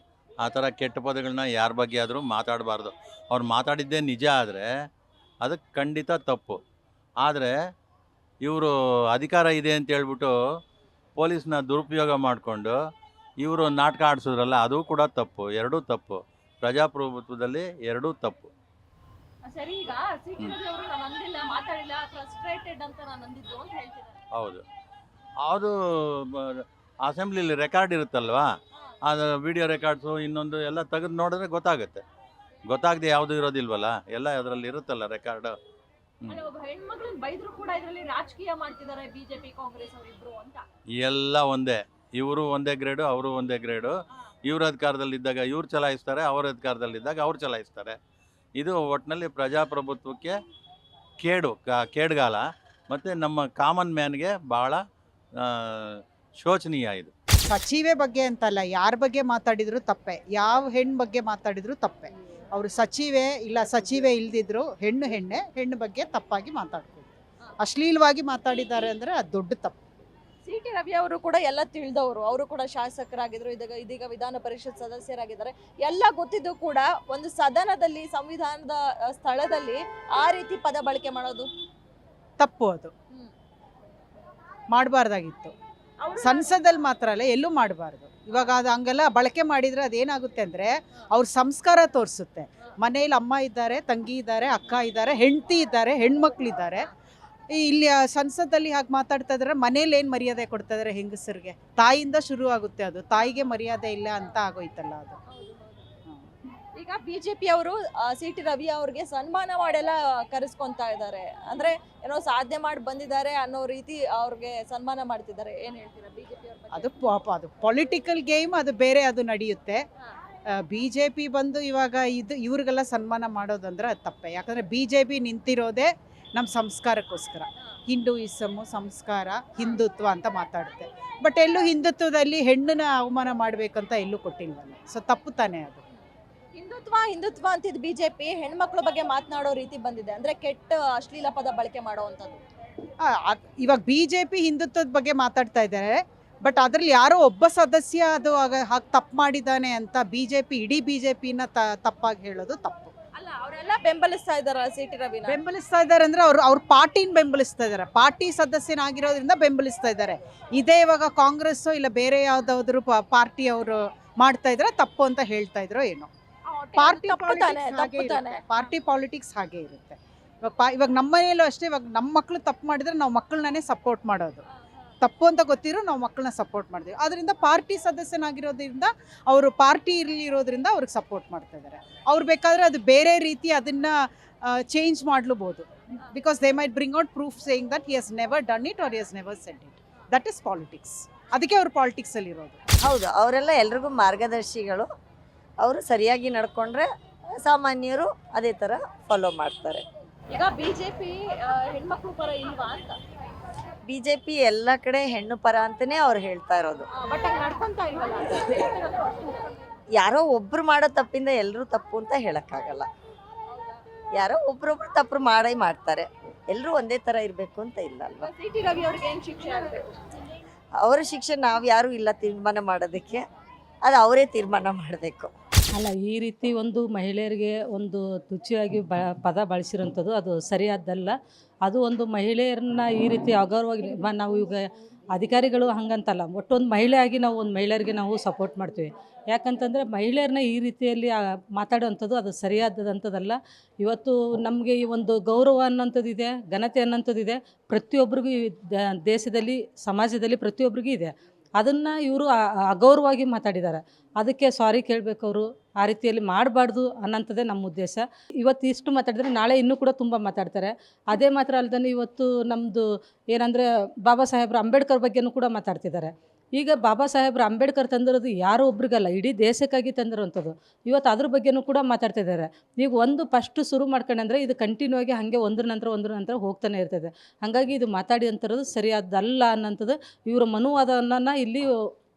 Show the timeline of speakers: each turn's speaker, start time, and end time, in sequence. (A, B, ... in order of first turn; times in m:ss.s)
0:00.4-0:04.7 A
0:05.4-0:06.6 A
0:07.2-0:07.5 A
0:08.4-0:10.3 A
0:11.2-0:12.8 A
0:13.4-0:18.5 A
0:19.4-0:24.2 B
0:24.3-0:24.6 A
0:25.4-0:28.5 A
0:29.0-0:32.0 A
0:32.7-0:35.6 A
0:36.3-0:40.6 B
0:40.9-0:44.0 A
0:44.5-0:48.0 A
0:48.6-0:50.3 A
0:51.2-0:54.8 A
0:55.4-0:57.1 A
0:57.4-1:09.8 C
1:10.4-1:21.5 B
1:22.4-1:22.9 C
1:24.7-1:25.5 C
1:26.0-1:26.5 B
1:26.2-1:36.9 C
1:37.5-1:45.2 C
1:45.3-1:45.9 B
1:46.8-1:57.0 B
1:56.7-1:59.8 C
2:00.5-2:15.8 C
2:16.5-2:22.4 B
2:23.0-2:32.9 C
2:33.2-2:35.4 B
2:35.2-2:46.1 C
2:46.5-2:48.4 B
2:46.8-2:54.4 C
2:55.0-3:12.6 C
3:12.8-3:14.9 D
3:15.6-3:16.9 D
3:17.4-3:19.8 D
3:20.3-3:23.0 B
3:23.8-3:26.9 D
3:26.9-3:29.5 B
3:30.0-3:32.9 D
3:33.5-3:33.8 B
3:34.2-3:38.3 D
3:38.2-3:39.9 B
3:40.8-3:43.2 D
3:43.8-3:45.3 D
3:45.7-3:51.2 E
3:51.7-4:41.8 E